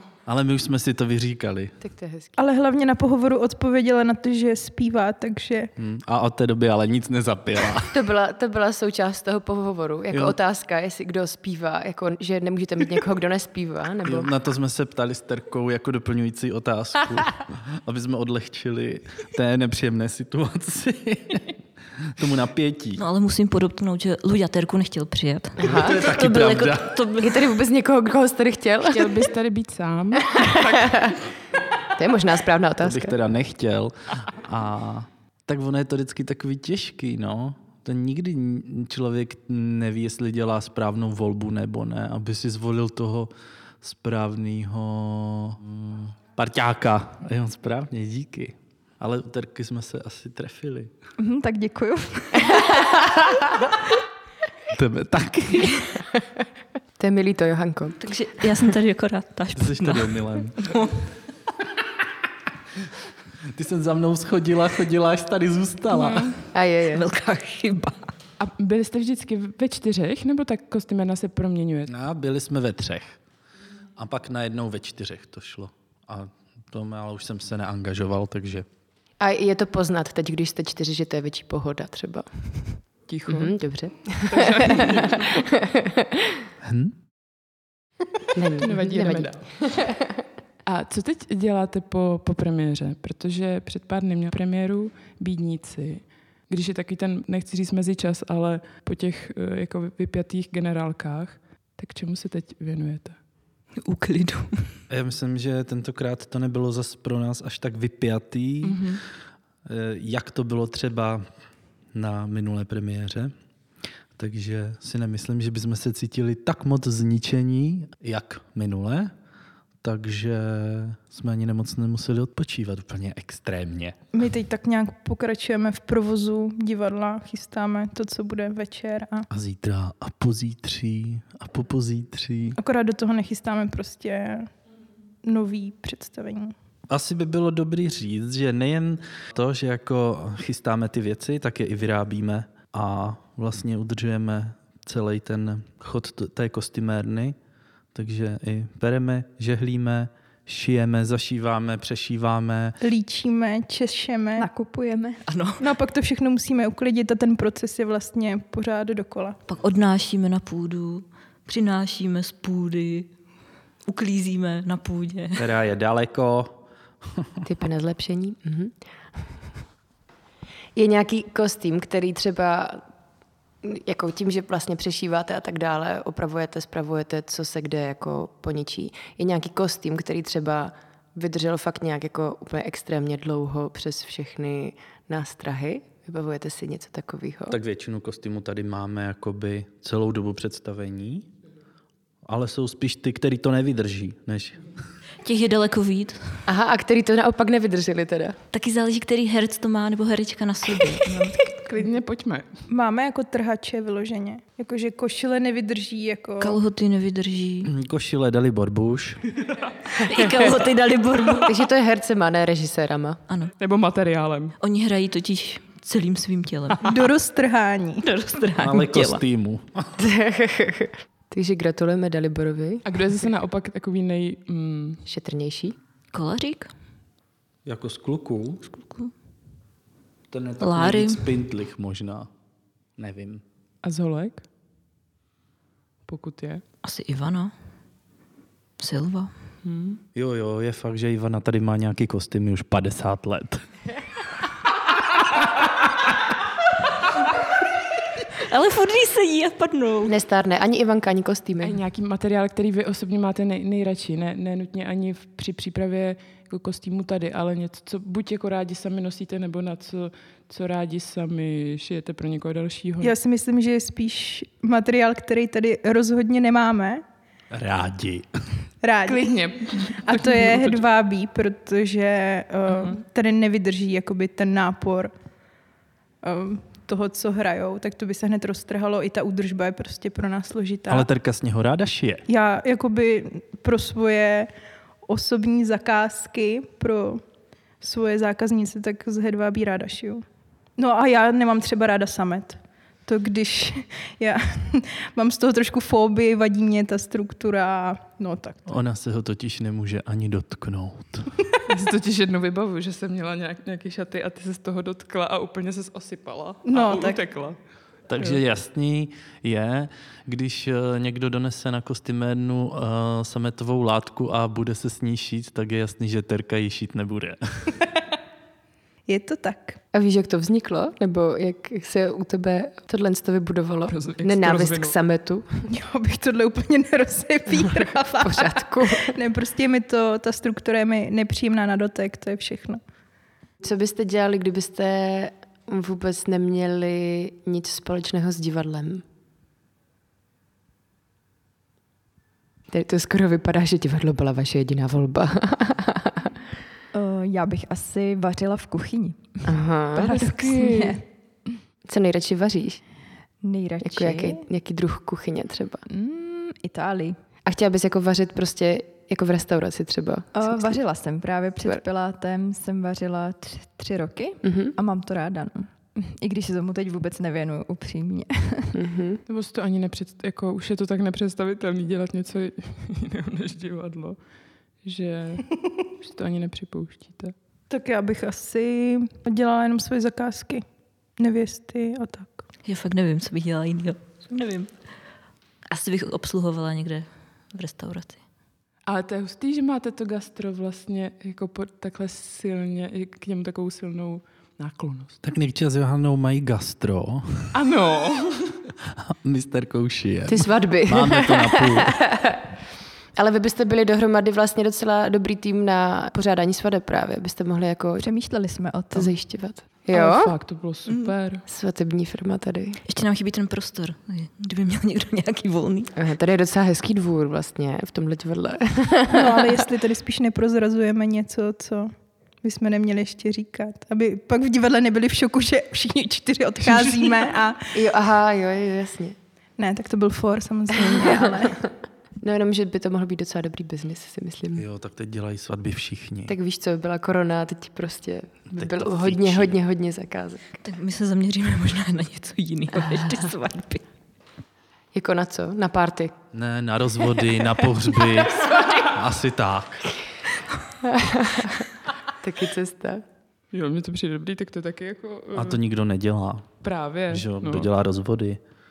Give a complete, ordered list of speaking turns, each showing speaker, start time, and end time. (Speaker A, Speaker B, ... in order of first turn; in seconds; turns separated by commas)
Speaker A: 0.2-1.7, Speaker B: 1.8-2.3, Speaker C: 2.4-5.7, Speaker A: 5.8-8.1, Speaker B: 7.9-14.3, Speaker A: 10.1-10.4, Speaker A: 14.0-23.0, Speaker D: 23.0-27.4, Speaker B: 25.6-26.0, Speaker A: 25.6-27.0, Speaker B: 27.2-29.2, Speaker E: 28.9-30.7, Speaker B: 30.3-31.1, Speaker B: 31.9-33.1, Speaker A: 32.8-50.9, Speaker F: 51.2-52.6, Speaker A: 54.7-55.8, Speaker B: 57.0-58.0, Speaker D: 58.0-61.0, Speaker A: 59.6-60.7, Speaker A: 63.5-66.3, Speaker E: 65.9-66.4, Speaker B: 66.5-67.0, Speaker D: 66.9-68.1, Speaker E: 68.4-71.9, Speaker A: 71.8-73.2, Speaker A: 74.0-78.7, Speaker B: 79.2-86.4, Speaker E: 83.1-83.5, Speaker E: 84.2-85.4, Speaker A: 86.6-86.9, Speaker B: 88.3-90.1, Speaker E: 88.6-89.4, Speaker E: 90.7-103.2, Speaker D: 103.8-104.7, Speaker A: 104.9-108.9, Speaker E: 108.6-109.0, Speaker A: 109.7-111.2, Speaker A: 111.9-113.3, Speaker A: 114.2-119.1, Speaker A: 119.8-124.0, Speaker C: 124.1-129.3, Speaker A: 129.3-132.6, Speaker C: 132.6-134.5, Speaker C: 135.2-136.5, Speaker A: 136.9-147.3, Speaker A: 147.9-152.8, Speaker C: 152.8-154.5, Speaker F: 154.3-155.2, Speaker D: 155.2-155.6, Speaker C: 155.6-159.4, Speaker D: 159.5-163.1, Speaker D: 163.8-165.4, Speaker A: 165.4-167.4, Speaker B: 167.4-169.3, Speaker B: 170.8-172.8, Speaker B: 173.6-187.6, Speaker A: 187.5-191.3, Speaker A: 192.2-194.7, Speaker D: 195.2-196.4, Speaker B: 196.4-198.4, Speaker D: 198.5-201.5, Speaker E: 201.5-202.5, Speaker C: 202.7-206.6, Speaker D: 206.4-207.7, Speaker A: 207.6-209.2, Speaker D: 210.0-211.6, Speaker B: 211.4-213.2, Speaker E: 213.6-214.5, Speaker D: 214.6-217.0, Speaker C: 216.8-218.0, Speaker D: 218.0-219.2, Speaker A: 218.6-219.9, Speaker B: 220.0-222.8, Speaker E: 222.8-225.0, Speaker B: 225.1-225.7, Speaker D: 226.1-226.7, Speaker A: 227.6-228.7, Speaker D: 228.7-229.1, Speaker A: 230.3-232.3, Speaker D: 230.6-231.2, Speaker A: 233.0-233.4, Speaker E: 233.8-234.4, Speaker E: 236.1-236.6, Speaker D: 236.8-237.5, Speaker D: 238.8-239.3, Speaker E: 239.6-240.0, Speaker A: 240.1-243.6, Speaker D: 248.3-250.2, Speaker B: 250.1-251.8, Speaker E: 251.6-263.1, Speaker C: 263.0-267.0, Speaker A: 267.5-268.3, Speaker C: 268.8-275.1, Speaker E: 269.1-270.8, Speaker C: 276.2-281.1, Speaker A: 280.9-282.2, Speaker C: 282.3-284.5, Speaker C: 285.1-287.2, Speaker C: 287.8-290.2, Speaker C: 290.8-298.7, Speaker A: 298.6-301.3, Speaker E: 301.7-307.6, Speaker C: 306.6-307.2, Speaker A: 308.1-317.8, Speaker C: 319.1-319.8, Speaker B: 319.9-325.4, Speaker E: 323.9-324.9, Speaker C: 325.7-332.8, Speaker B: 328.2-329.1, Speaker B: 333.6-339.0, Speaker B: 342.7-346.2, Speaker F: 346.9-351.0, Speaker B: 349.5-351.0, Speaker B: 351.9-352.8, Speaker F: 353.4-354.4, Speaker B: 353.8-355.8, Speaker F: 355.9-357.2, Speaker B: 357.4-360.7, Speaker F: 360.3-368.7, Speaker B: 364.4-364.7, Speaker B: 368.7-369.2, Speaker E: 369.3-374.2, Speaker E: 374.8-377.3, Speaker C: 377.7-380.6, Speaker C: 381.2-382.4, Speaker D: 382.6-384.7, Speaker D: 385.7-388.2, Speaker E: 388.9-395.1, Speaker A: 395.2-397.5, Speaker E: 397.5-398.6, Speaker A: 398.9-402.0, Speaker B: 400.3-402.4, Speaker B: 403.1-408.1, Speaker F: 408.0-409.2, Speaker B: 408.9-410.3, Speaker E: 409.9-411.4, Speaker B: 411.4-412.8, Speaker D: 412.8-415.9, Speaker B: 415.9-419.6, Speaker C: 419.1-427.8, Speaker B: 427.7-429.1, Speaker C: 429.6-431.6, Speaker B: 432.2-434.6, Speaker A: 434.6-436.3, Speaker B: 436.3-440.4, Speaker A: 438.5-439.6, Speaker D: 440.6-443.8, Speaker B: 444.9-446.1, Speaker A: 446.3-449.8, Speaker B: 450.8-451.7, Speaker B: 452.2-453.0, Speaker E: 453.5-455.6, Speaker A: 455.3-456.5, Speaker E: 456.6-457.7, Speaker A: 457.1-458.4